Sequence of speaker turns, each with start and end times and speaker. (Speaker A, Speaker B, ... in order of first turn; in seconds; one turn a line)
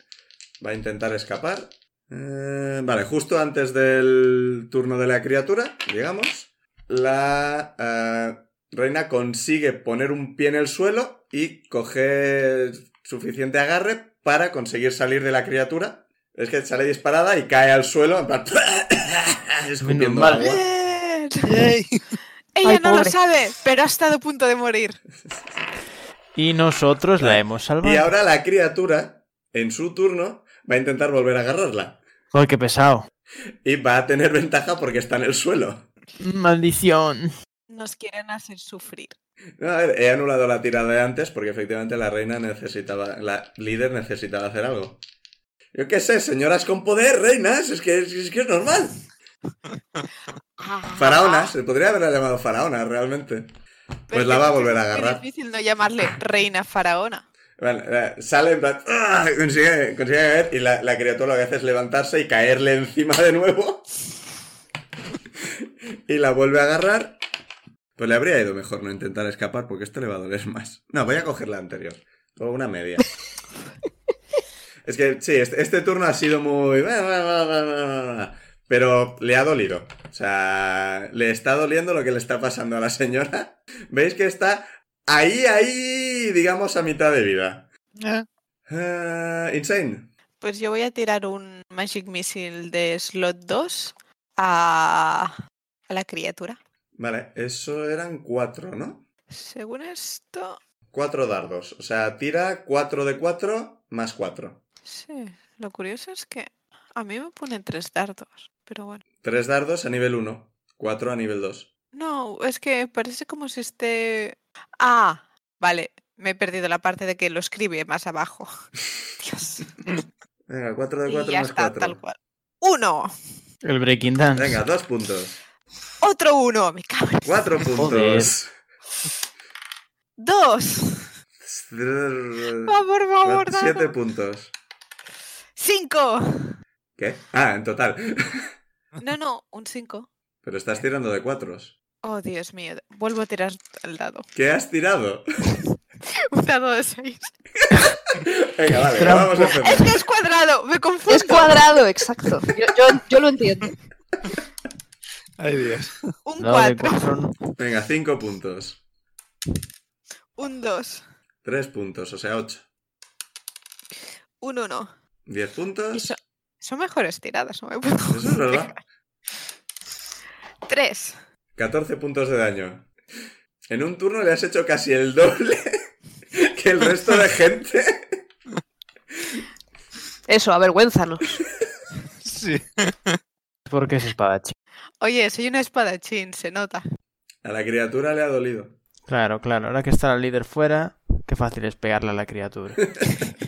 Speaker A: 0.6-20.6
Speaker B: 19.8-20.4
Speaker C: 20.3-21.6
Speaker D: 21.4-22.2
Speaker C: 22.5-25.0
Speaker E: 22.6-23.1
Speaker B: 26.4-28.1
Speaker A: 27.2-32.0
Speaker B: 32.3-33.1
Speaker A: 33.6-35.9
Speaker B: 36.2-37.3
Speaker C: 37.7-39.1
Speaker A: 39.6-45.0
Speaker A: 45.7-49.0
Speaker C: 50.6-51.5
Speaker A: 50.9-53.5
Speaker C: 54.1-57.2
Speaker A: 54.1-55.2
Speaker A: 57.6-63.9
Speaker A: 65.4-67.2
Speaker A: 68.0-73.1
Speaker A: 74.8-87.7
Speaker D: 88.0-88.2
Speaker A: 88.7-90.1
Speaker C: 90.4-95.3
Speaker C: 95.9-96.6
Speaker A: 97.0-99.0
Speaker C: 99.3-100.6
Speaker A: 100.9-104.6
Speaker C: 104.8-109.0
Speaker A: 109.2-111.7
Speaker C: 111.9-118.5
Speaker C: 119.2-119.7
Speaker A: 120.5-122.0
Speaker C: 121.0-123.1
Speaker B: 123.6-124.6
Speaker A: 124.3-125.4
Speaker C: 126.0-127.7
Speaker A: 127.2-128.5
Speaker B: 127.8-128.3
Speaker C: 130.2-131.1
Speaker A: 131.4-134.5
Speaker C: 132.7-133.9
Speaker C: 135.6-136.6
Speaker A: 137.0-138.5
Speaker C: 139.0-140.1
Speaker A: 140.4-141.7
Speaker C: 142.0-144.2
Speaker A: 144.3-145.2
Speaker C: 146.1-147.3
Speaker A: 148.2-149.9
Speaker B: 148.9-149.5
Speaker C: 149.6-151.7
Speaker E: 151.1-153.7
Speaker D: 155.4-156.0
Speaker C: 156.2-157.1
Speaker B: 156.4-157.3
Speaker A: 157.6-158.8
Speaker C: 160.4-161.0
Speaker A: 161.4-162.6
Speaker C: 164.4-164.9
Speaker A: 165.3-166.2
Speaker C: 165.9-168.8
Speaker A: 168.1-168.8
Speaker C: 170.7-171.2
Speaker A: 171.6-172.9
Speaker A: 173.7-175.8
Speaker A: 176.3-178.2
Speaker E: 180.3-181.4
Speaker D: 182.2-183.2
Speaker B: 183.7-184.5
Speaker C: 185.0-186.8
Speaker A: 187.4-188.8
Speaker B: 189.1-192.8